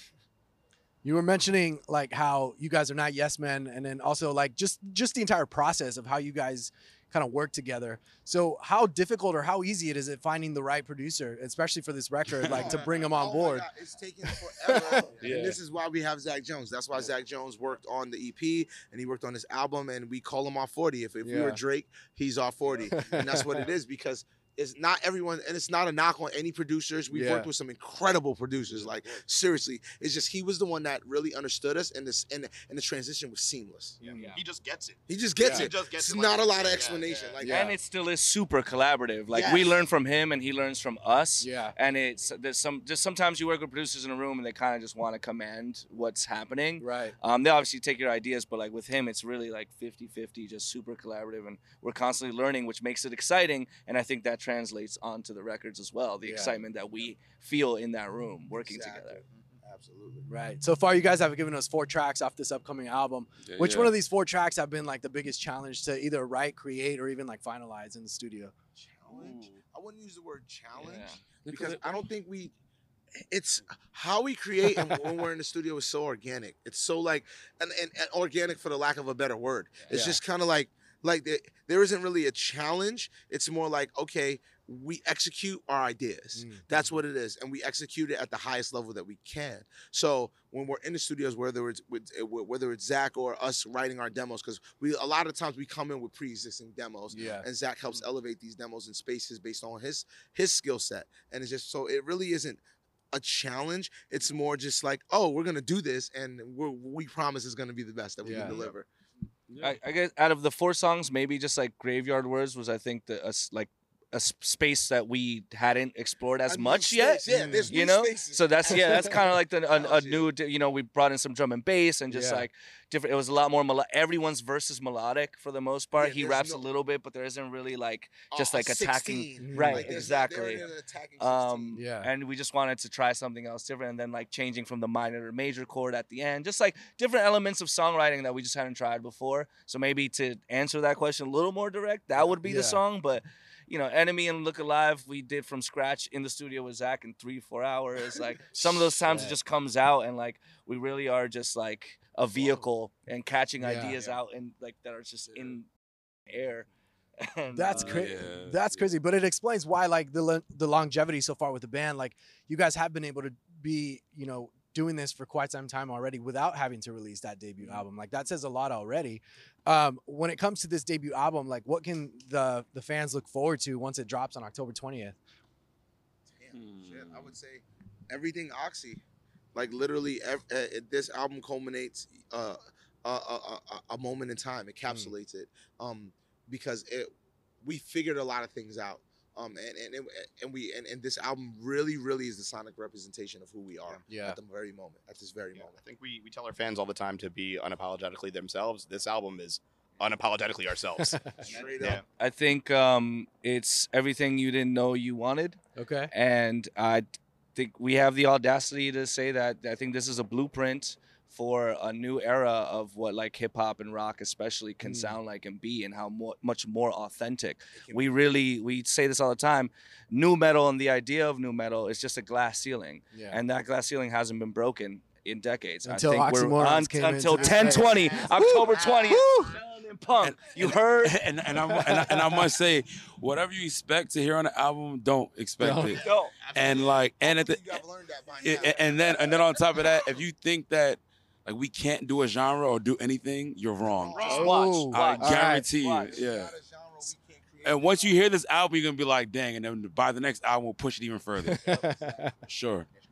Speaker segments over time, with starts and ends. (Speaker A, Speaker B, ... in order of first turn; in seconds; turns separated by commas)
Speaker A: 1.0-13.7, Speaker B: 12.5-34.1, Speaker A: 14.3-15.1, Speaker C: 15.2-15.6, Speaker A: 21.2-21.6, Speaker A: 22.8-23.7, Speaker A: 27.1-27.5, Speaker D: 34.0-37.4, Speaker E: 34.1-34.4, Speaker B: 35.1-37.7, Speaker A: 35.4-35.7, Speaker A: 37.4-37.7, Speaker E: 37.4-59.2, Speaker B: 39.3-39.8, Speaker A: 41.4-41.8, Speaker A: 46.8-47.2, Speaker A: 56.2-56.6, Speaker B: 58.5-60.3, Speaker A: 60.3-68.5, Speaker C: 63.4-64.0, Speaker B: 68.8-72.5, Speaker C: 69.1-69.5, Speaker E: 70.8-71.2, Speaker C: 71.4-72.0, Speaker B: 73.3-102.6, Speaker A: 79.9-80.2, Speaker A: 86.3-87.0, Speaker A: 97.2-97.5, Speaker B: 103.1-108.9, Speaker A: 108.2-108.6, Speaker C: 109.5-109.8, Speaker E: 109.6-130.7, Speaker B: 116.5-119.1, Speaker A: 117.4-117.7, Speaker A: 118.7-119.2, Speaker B: 119.6-120.3, Speaker A: 122.1-122.5, Speaker B: 126.0-126.7, Speaker B: 128.3-131.8, Speaker A: 129.4-130.0, Speaker E: 131.2-155.7, Speaker A: 131.8-132.1, Speaker A: 142.4-142.8, Speaker B: 152.3-152.7, Speaker A: 153.6-153.9, Speaker E: 156.3-156.7, Speaker E: 157.2-158.1, Speaker A: 157.5-175.2, Speaker C: 157.7-158.9, Speaker B: 176.3-179.0, Speaker C: 176.5-177.3, Speaker B: 179.5-187.1, Speaker A: 184.9-185.1, Speaker B: 187.6-195.8, Speaker A: 194.1-194.4, Speaker D: 195.6-202.0, Speaker A: 201.0-201.3, Speaker B: 201.5-202.0, Speaker E: 202.2-205.6, Speaker A: 205.8-206.1, Speaker E: 206.1-231.2, Speaker A: 214.8-215.2, Speaker B: 217.8-218.2, Speaker A: 223.1-223.4, Speaker A: 225.9-228.6, Speaker B: 227.4-229.1, Speaker A: 229.2-229.5, Speaker C: 230.2-236.0, Speaker A: 231.6-232.4, Speaker A: 235.6-235.9, Speaker B: 235.9-239.8, Speaker E: 235.9-236.3, Speaker C: 236.5-237.8, Speaker C: 238.4-246.6, Speaker B: 243.8-244.4, Speaker E: 244.2-246.2, Speaker A: 244.3-245.7, Speaker B: 246.0-248.2, Speaker C: 247.6-251.9, Speaker A: 251.4-252.3, Speaker C: 252.5-252.9